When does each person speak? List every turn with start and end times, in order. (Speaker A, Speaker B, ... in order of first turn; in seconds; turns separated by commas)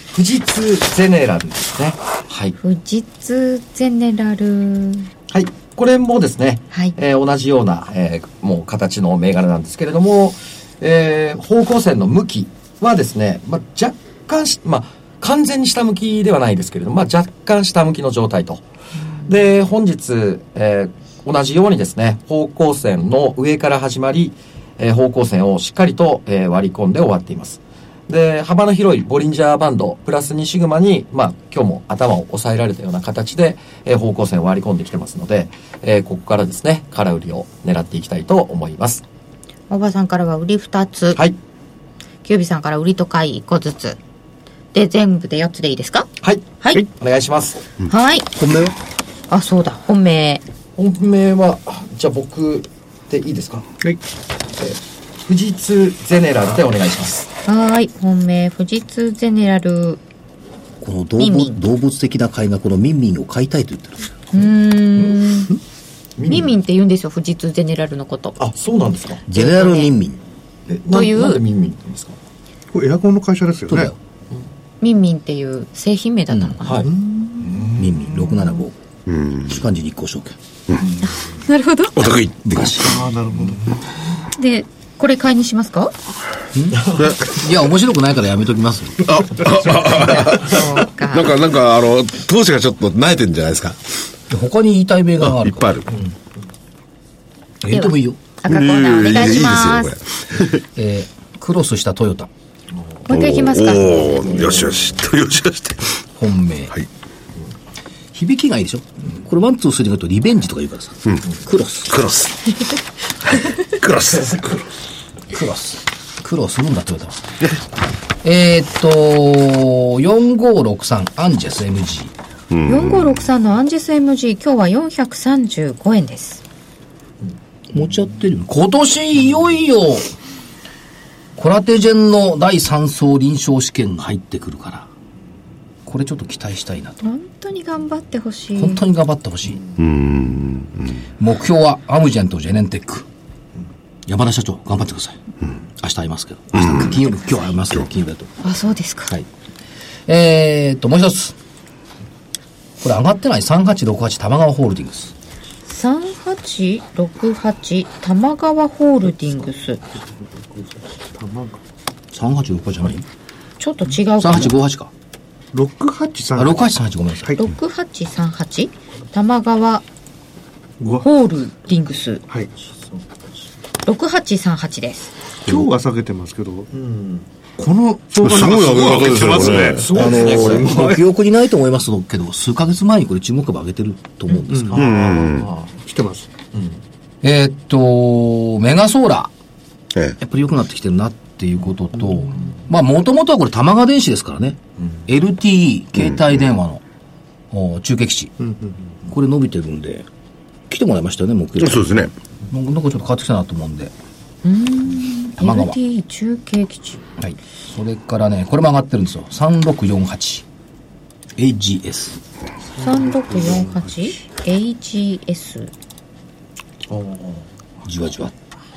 Speaker A: 0.1-2.6, Speaker B: 2.6-5.1, Speaker A: 5.3-18.6, Speaker A: 19.3-39.0, Speaker B: 39.7-41.2, Speaker B: 42.2-44.0, Speaker B: 44.7-46.1, Speaker A: 46.2-47.6, Speaker B: 47.9-48.3, Speaker C: 48.4-48.8, Speaker B: 49.3-50.4, Speaker A: 50.8-53.7, Speaker A: 54.6-57.3, Speaker B: 57.5-60.0, Speaker C: 60.8-64.2, Speaker B: 61.2-61.6, Speaker B: 64.3-65.5, Speaker A: 66.2-66.5, Speaker B: 66.3-68.4, Speaker A: 68.4-69.2, Speaker C: 69.3-70.2, Speaker B: 69.3-69.9, Speaker A: 70.7-72.2, Speaker B: 70.9-71.4, Speaker D: 72.7-73.9, Speaker C: 73.7-74.0, Speaker B: 74.8-76.9, Speaker A: 76.6-76.9, Speaker D: 76.9-77.5, Speaker A: 77.4-78.4, Speaker C: 77.7-78.8, Speaker E: 79.1-79.5, Speaker C: 79.4-80.4, Speaker B: 81.0-82.0, Speaker E: 82.0-83.0, Speaker C: 82.5-82.9, Speaker D: 82.8-83.6, Speaker B: 84.4-85.9, Speaker C: 86.5-89.0, Speaker E: 87.0-87.4, Speaker E: 89.0-93.8, Speaker B: 90.0-91.3, Speaker C: 94.3-96.1, Speaker E: 95.2-95.9, Speaker C: 97.6-98.2, Speaker B: 97.7-99.9, Speaker E: 98.5-100.6, Speaker C: 100.8-102.3, Speaker B: 103.1-104.0, Speaker E: 103.1-106.0, Speaker C: 106.2-106.7, Speaker C: 108.1-111.9, Speaker E: 111.9-112.6, Speaker E: 113.3-114.7, Speaker C: 115.3-117.2, Speaker C: 118.2-122.1, Speaker E: 122.5-123.2, Speaker B: 122.7-126.4, Speaker C: 127.7-130.1, Speaker C: 131.4-134.9, Speaker C: 135.8-137.0, Speaker B: 137.0-138.8, Speaker C: 138.6-139.6, Speaker E: 139.8-140.9, Speaker C: 141.2-143.1, Speaker C: 144.1-145.2, Speaker C: 145.8-148.4, Speaker E: 146.6-146.9, Speaker B: 148.4-149.2, Speaker C: 150.1-151.3, Speaker C: 152.8-155.1, Speaker B: 155.7-159.8, Speaker D: 161.1-161.6, Speaker C: 162.1-163.1, Speaker B: 163.6-164.6, Speaker C: 164.2-164.9, Speaker D: 165.5-167.4, Speaker C: 166.4-167.4, Speaker B: 167.4-169.8, Speaker D: 170.8-171.1, Speaker B: 171.0-172.2, Speaker B: 173.8-175.1, Speaker D: 175.4-176.7, Speaker A: 176.7-177.2, Speaker D: 177.6-181.0, Speaker E: 178.2-179.9, Speaker C: 179.9-184.8, Speaker A: 180.0-180.7, Speaker D: 184.5-184.9, Speaker A: 184.7-185.7, Speaker E: 184.8-185.5, Speaker D: 185.9-186.3, Speaker C: 187.2-189.3, Speaker C: 190.2-196.8, Speaker C: 197.5-198.3, Speaker D: 198.4-198.7, Speaker C: 199.1-200.1, Speaker C: 200.7-203.9, Speaker E: 201.6-202.1, Speaker B: 204.4-207.0, Speaker C: 205.4-205.8, Speaker C: 207.2-210.4, Speaker C: 211.4-212.2, Speaker B: 212.8-215.7, Speaker A: 216.9-217.4, Speaker C: 217.8-218.3